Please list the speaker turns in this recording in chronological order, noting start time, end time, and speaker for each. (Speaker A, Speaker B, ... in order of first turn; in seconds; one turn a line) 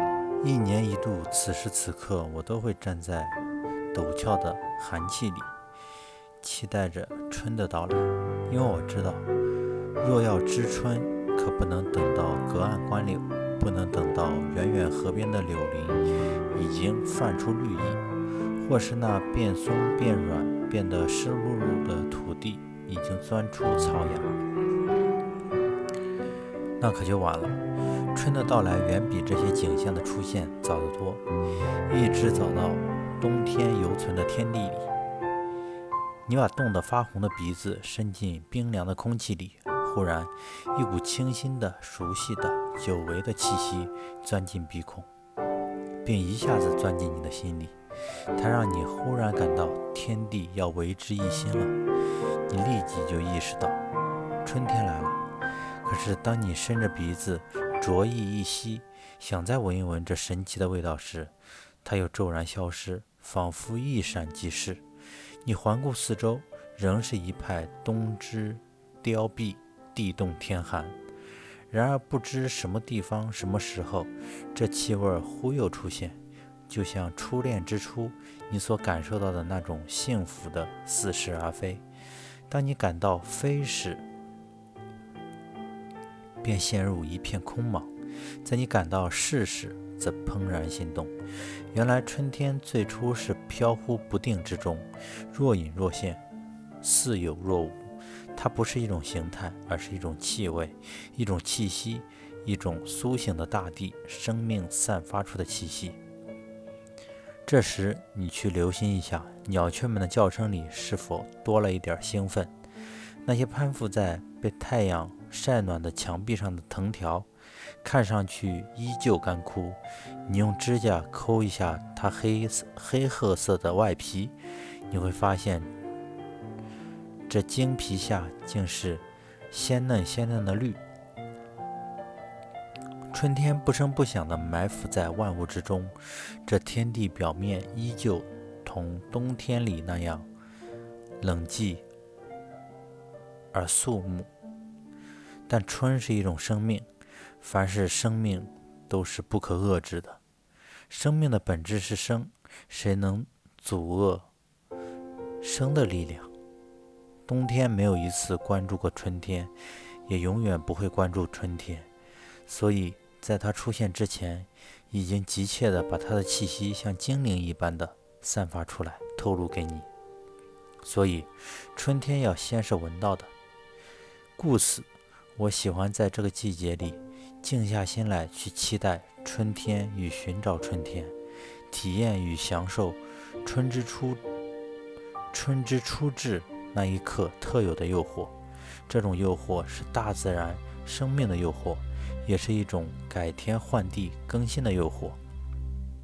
Speaker A: 0.4-3.4
Speaker A: 3.9-5.5
Speaker A: 6.4-9.2
Speaker A: 10.0-18.0
Speaker A: 18.6-24.4
Speaker A: 26.8-27.6
Speaker A: 28.1-31.2
Speaker A: 31.9-34.9
Speaker A: 36.2-45.1
Speaker A: 46.0-47.7
Speaker A: 48.3-51.8
Speaker A: 52.5-53.8
Speaker A: 54.4-55.2
Speaker A: 55.8-61.3
Speaker A: 61.8-64.8
Speaker A: 65.4-71.0
Speaker A: 71.7-76.2
Speaker A: 76.7-81.8
Speaker A: 82.5-84.0
Speaker A: 86.4-87.9
Speaker A: 88.4-91.1
Speaker A: 91.7-96.2
Speaker A: 96.8-106.0
Speaker A: 107.5-112.5
Speaker A: 113.2-117.3
Speaker A: 117.8-124.3
Speaker A: 124.9-125.7
Speaker A: 127.3-130.8
Speaker A: 133.1-140.3
Speaker A: 141.2-141.8
Speaker A: 143.5-144.3
Speaker A: 145.5-146.9
Speaker A: 147.4-150.2
Speaker A: 150.9-154.3
Speaker A: 155.4-156.3
Speaker A: 157.3-159.5
Speaker A: 160.1-161.9
Speaker A: 162.5-169.9
Speaker A: 170.8-173.3
Speaker A: 174.4-181.1
Speaker A: 181.7-184.2
Speaker A: 185.3-188.3
Speaker A: 188.9-195.2